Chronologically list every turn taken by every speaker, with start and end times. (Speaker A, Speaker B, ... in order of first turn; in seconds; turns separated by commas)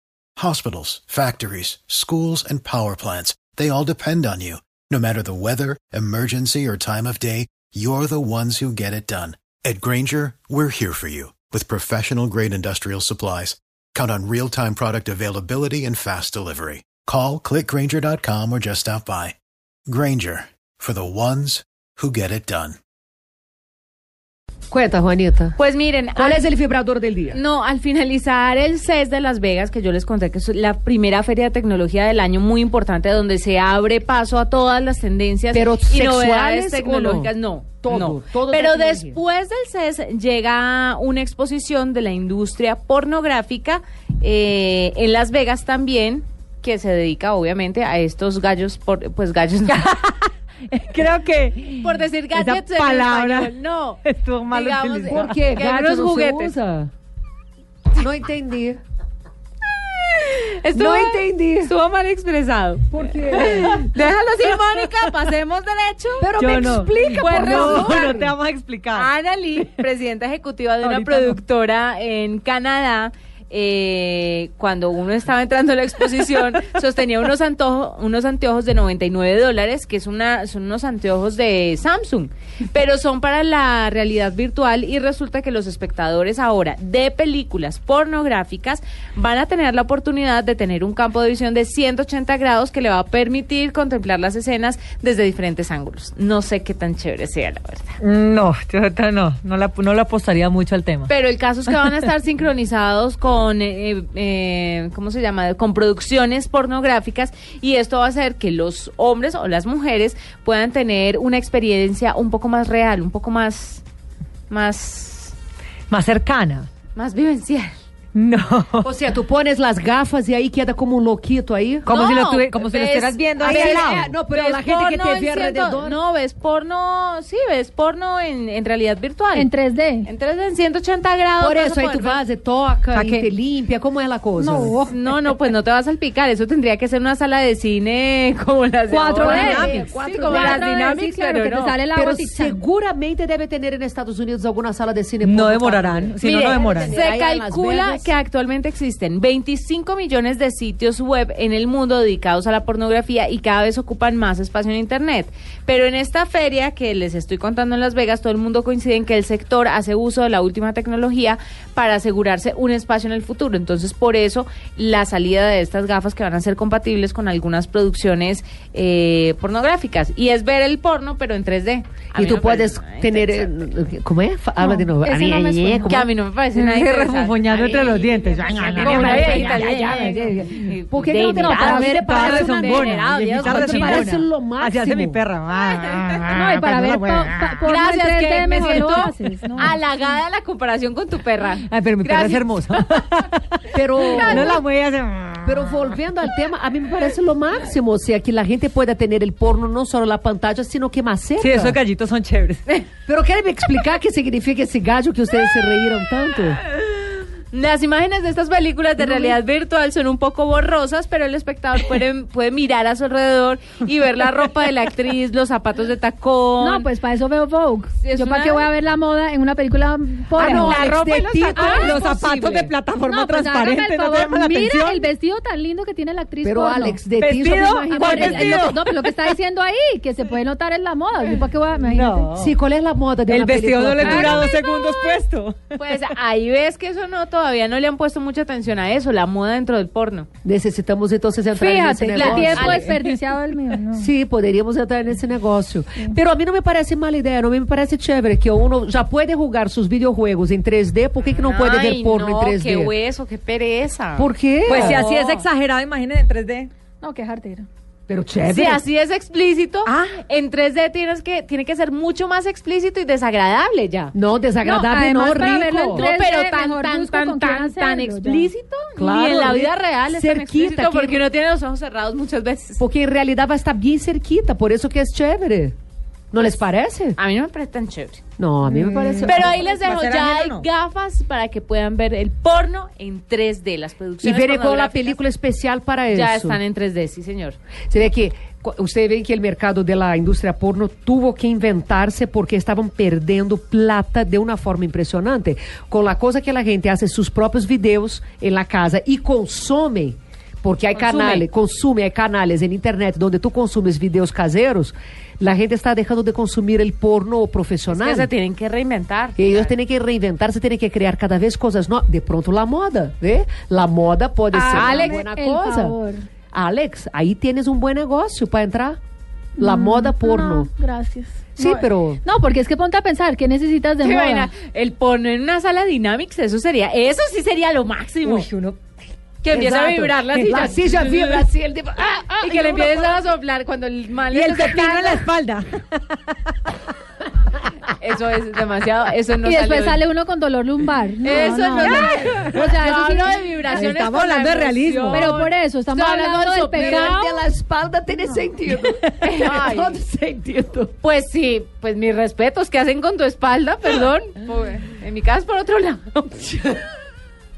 Speaker A: 0.3-19.4, Speaker A: 19.9-22.8, Speaker B: 24.7-25.6, Speaker C: 25.6-26.4, Speaker B: 26.1-27.4, Speaker C: 27.3-49.9, Speaker B: 35.5-37.3, Speaker B: 37.8-39.2, Speaker D: 49.6-55.4, Speaker C: 51.8-56.5, Speaker B: 55.1-56.9, Speaker B: 58.0-58.8, Speaker C: 60.0-66.3, Speaker B: 60.7-61.7, Speaker B: 62.9-63.8, Speaker B: 66.2-68.3, Speaker D: 66.3-69.1, Speaker C: 67.1-68.1, Speaker C: 68.9-97.9, Speaker D: 70.8-71.4, Speaker D: 98.0-101.1, Speaker C: 101.1-113.8, Speaker C: 114.5-115.3, Speaker D: 115.9-116.7, Speaker C: 116.9-117.8, Speaker D: 118.1-118.9, Speaker B: 118.8-121.9, Speaker D: 121.8-124.1, Speaker C: 121.9-129.5, Speaker B: 123.4-126.0, Speaker E: 129.3-130.1, Speaker C: 130.1-132.2, Speaker B: 131.4-134.8, Speaker C: 132.9-133.3, Speaker E: 134.4-135.1, Speaker C: 134.9-141.8, Speaker E: 138.9-142.6, Speaker B: 139.2-140.7, Speaker B: 141.9-148.1, Speaker D: 145.2-147.0, Speaker C: 146.2-173.5, Speaker B: 172.1-176.1, Speaker C: 174.6-184.2, Speaker D: 176.5-180.6, Speaker B: 178.7-185.2, Speaker E: 181.3-181.8, Speaker D: 181.4-187.8, Speaker C: 185.8-186.2, Speaker E: 186.3-189.7, Speaker C: 187.6-192.9, Speaker D: 188.8-189.8, Speaker D: 191.7-195.8, Speaker B: 193.7-194.6, Speaker C: 193.9-194.6, Speaker B: 195.4-201.8, Speaker D: 201.4-202.6, Speaker B: 203.1-206.6, Speaker C: 207.5-216.9, Speaker E: 216.6-220.8, Speaker C: 218.0-218.7, Speaker B: 220.3-222.7, Speaker C: 220.4-222.1, Speaker D: 220.6-225.1, Speaker E: 223.1-227.0, Speaker B: 226.4-228.6, Speaker D: 227.2-229.3, Speaker E: 227.6-232.3, Speaker D: 231.2-232.5, Speaker B: 232.3-234.5, Speaker D: 233.3-235.6, Speaker E: 234.1-235.2, Speaker C: 235.7-240.3, Speaker B: 240.4-242.9, Speaker E: 241.5-244.1, Speaker C: 242.1-242.9, Speaker B: 244.0-252.9, Speaker C: 251.2-255.4, Speaker B: 254.2-255.0, Speaker D: 254.7-256.7, Speaker E: 257.0-257.7, Speaker B: 258.1-258.8, Speaker C: 258.5-264.1, Speaker D: 259.9-260.2, Speaker B: 264.1-266.1, Speaker E: 264.6-268.5, Speaker C: 265.5-272.8, Speaker B: 269.0-271.2, Speaker B: 272.8-275.8, Speaker B: 276.3-277.2, Speaker C: 277.2-278.2, Speaker B: 278.4-279.5, Speaker D: 278.7-280.6, Speaker C: 279.2-285.2, Speaker B: 284.2-286.6, Speaker C: 286.1-287.6, Speaker B: 287.9-308.3, Speaker C: 300.9-301.5, Speaker C: 307.9-309.7, Speaker B: 309.4-315.9, Speaker C: 314.5-315.3, Speaker E: 314.6-316.2, Speaker B: 316.5-319.0, Speaker E: 319.6-324.5, Speaker B: 319.6-320.7, Speaker B: 321.6-322.2, Speaker C: 324.0-328.5, Speaker D: 328.2-328.8, Speaker C: 329.4-331.5, Speaker B: 329.5-333.2, Speaker D: 330.3-330.7, Speaker C: 332.4-335.3, Speaker D: 334.3-336.4, Speaker C: 338.0-340.1, Speaker E: 339.4-343.8, Speaker C: 341.2-347.2, Speaker D: 343.7-345.3, Speaker E: 345.1-347.4, Speaker B: 346.8-350.9, Speaker D: 348.7-349.2, Speaker C: 349.2-350.0, Speaker C: 351.0-356.8